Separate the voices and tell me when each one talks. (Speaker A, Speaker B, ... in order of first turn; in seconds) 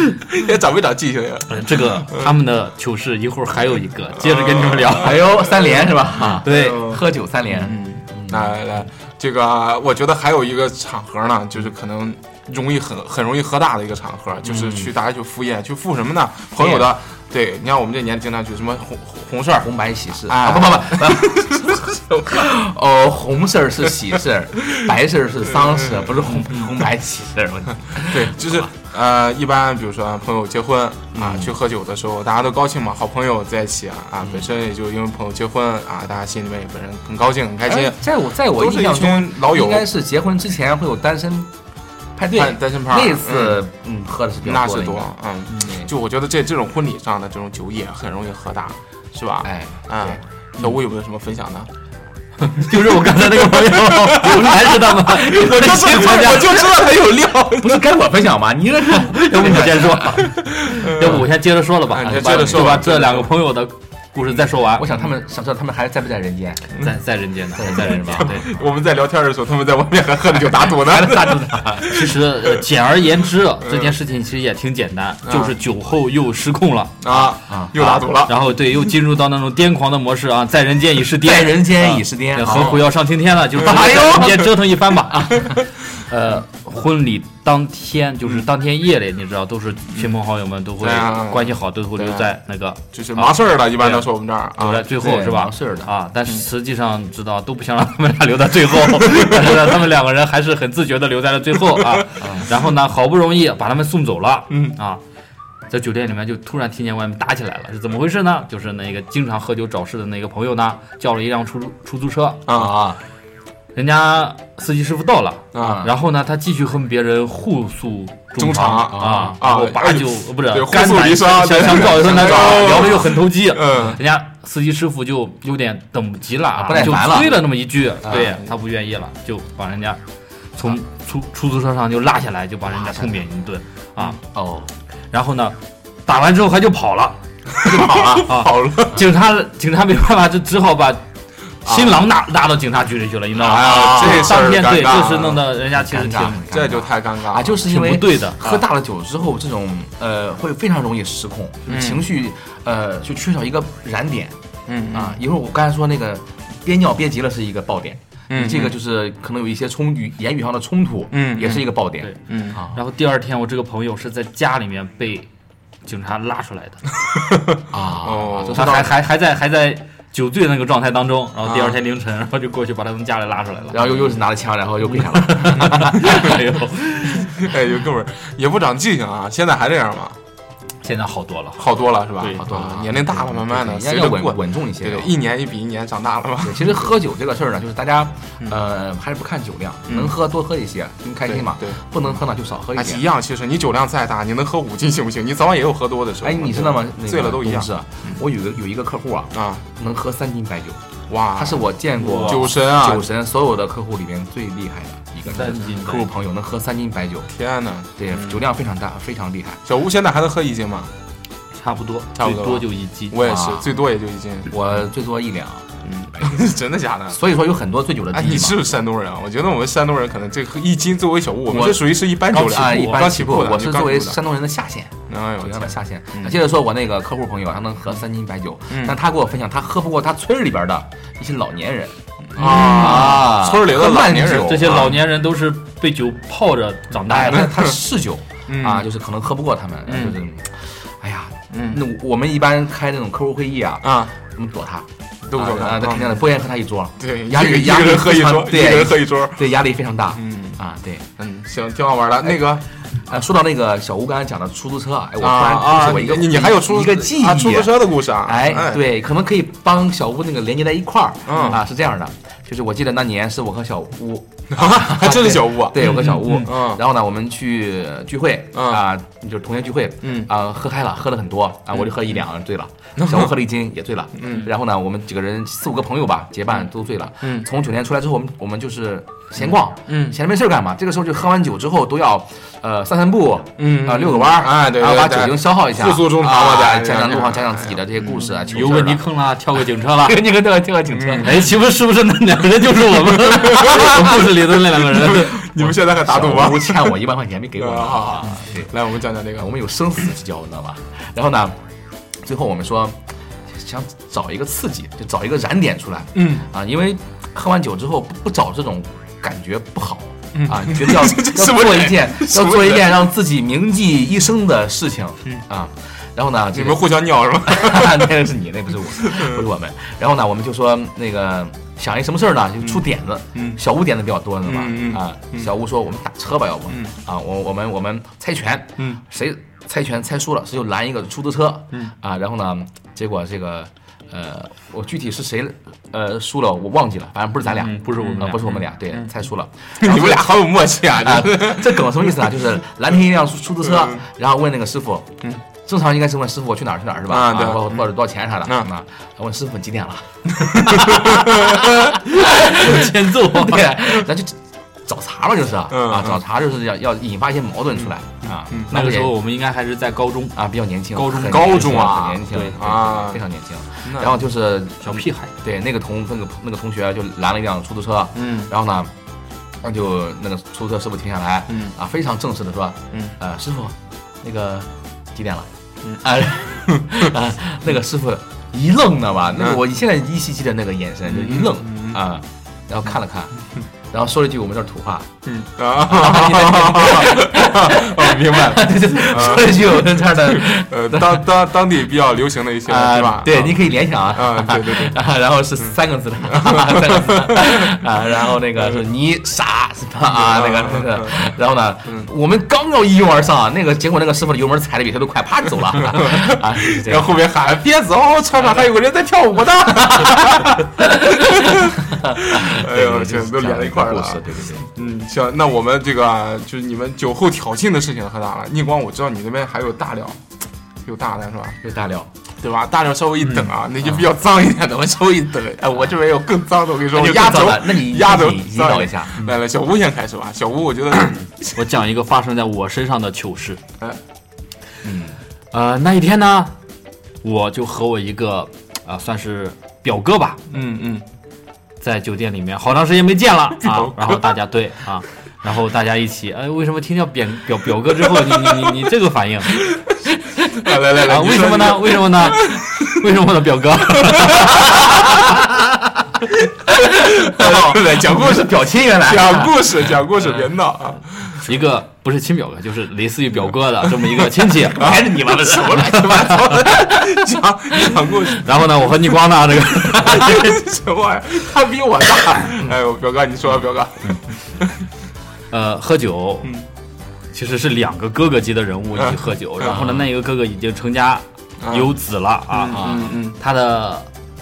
Speaker A: 0.2-2.3, 4.2-19.7, 20.2-22.2, 25.6-26.7, 28.1-39.9, 42.4-43.6, 44.4-51.7, 53.3-57.9, 60.2-61.2, 61.9-63.3, 68.2-72.6, 73.6-74.0, 75.2-75.5, 77.0-78.4, 90.8-92.3, 92.9-94.9, 99.0-99.6, 112.5-112.7, 115.5-115.8, 118.4-124.0, 137.6-139.0, 141.7-142.1, 143.3-145.4, 146.5-147.6, 151.7-152.0, 154.7-155.2, 158.3-158.8, 161.1-161.7, 162.3-162.6, 167.2-168.8, 171.5-171.7, 177.2-180.2, 181.6-186.9, 191.2-191.8, 192.7-198.2, 199.3-199.6, 201.1-201.7, 202.2-203.1, 207.3-208.4, 209.7-210.9, 212.2-214.5, 215.8-217.2, 218.1-224.2, 225.1-226.3, 228.7-228.9, 232.3-235.0, 237.3-237.7, 238.5-238.9, 239.9-240.2, 241.5-241.8, 243.8-244.1, 245.3-246.2, 247.0-249.4, 250.2-250.6, 251.2-252.6, 255.2-258.8, 261.3-261.6, 264.5-266.8, 268.5-268.8, 270.0-270.3, 271.8-272.1, 273.0-273.3, 274.1-274.5, 279.4-280.1, 283.6-288.4, 290.9-291.4, 293.3-297.0, 297.6-299.5, 306.1-306.4, 310.4-313.0, 316.5-318.1, 318.9-319.4, 322.6-323.6, 324.4-325.5, 338.0-339.1, 339.8-342.4, 343.6-344.0, 347.1-347.9, 350.4-351.9, 355.7-356.2, 358.2-358.7, 361.0-363.2, 368.1-368.5, 376.7-376.9, 381.1-382.0, 385.2-395.0, 396.3-397.4, 400.1-401.2, 405.8-420.2, 420.9-421.6, 422.4-431.5, 440.5-441.1, 443.6-444.3, 448.0-448.8, 449.6-449.9, 450.5-452.6, 453.9-455.2, 456.8-461.4, 463.9-469.2, 469.8-474.8, 478.9-479.9, 481.6-481.9, 482.5-483.4
Speaker B: 1.5-5.3, 6.4-7.0, 52.4-56.6, 59.0-64.9, 66.8-68.5, 71.8-105.0, 105.7-112.6, 113.7-130.0, 130.6-134.2, 135.1-137.2, 138.3-141.0, 141.6-146.6, 147.6-148.6, 162.7-165.3, 165.8-166.8, 168.5-174.1, 174.9-177.5, 180.8-181.7, 182.2-182.5, 202.0-202.6, 205.2-206.1, 211.6-213.4, 232.5-233.3, 234.3-237.6, 265.9-266.2, 288.4-290.2, 291.2-295.8, 337.5-338.4, 352.1-353.8, 358.7-360.4, 361.0-362.5, 364.8-365.3, 431.4-433.6, 435.5-436.6, 437.2-440.4, 441.8-449.6, 450.9-455.1, 461.4-464.9, 468.4-470.6, 475.5-476.5, 477.3-484.1
Speaker C: 5.0-8.6, 14.4-14.9, 16.6-16.9, 19.6-28.7, 31.1-31.5, 37.6-41.5, 42.1-45.9, 49.4-50.2, 55.4-56.8, 57.5-60.2, 64.7-66.7, 67.6-68.3, 70.3-72.0, 77.5-77.7, 81.2-82.9, 83.6-84.5, 85.1-85.6, 94.9-95.9, 102.2-102.5, 112.5-113.0, 115.6-115.9, 118.9-119.4, 121.9-123.3, 126.5-127.4, 128.0-128.4, 132.8-133.1, 134.2-134.7, 137.6-138.3, 145.7-154.4, 154.9-162.8, 167.7-168.9, 173.7-176.4, 182.3-185.1, 186.4-193.1, 196.2-200.8, 201.3-207.3, 208.0-209.6, 213.2-213.7, 214.5-216.4, 217.1-218.6, 221.5-234.9, 237.1-251.1, 253.1-289.0, 290.0-291.5, 295.9-298.7, 299.4-301.6, 302.2-359.1, 360.4-368.9, 369.6-375.5, 376.0-383.3, 383.9-385.1, 385.8-391.3, 392.6-407.2, 411.0-414.7, 421.6-422.1, 426.9-429.3, 434.8-435.2, 455.0-455.5, 456.6-459.8, 464.7-467.1, 479.6-480.1, 482.7-483.1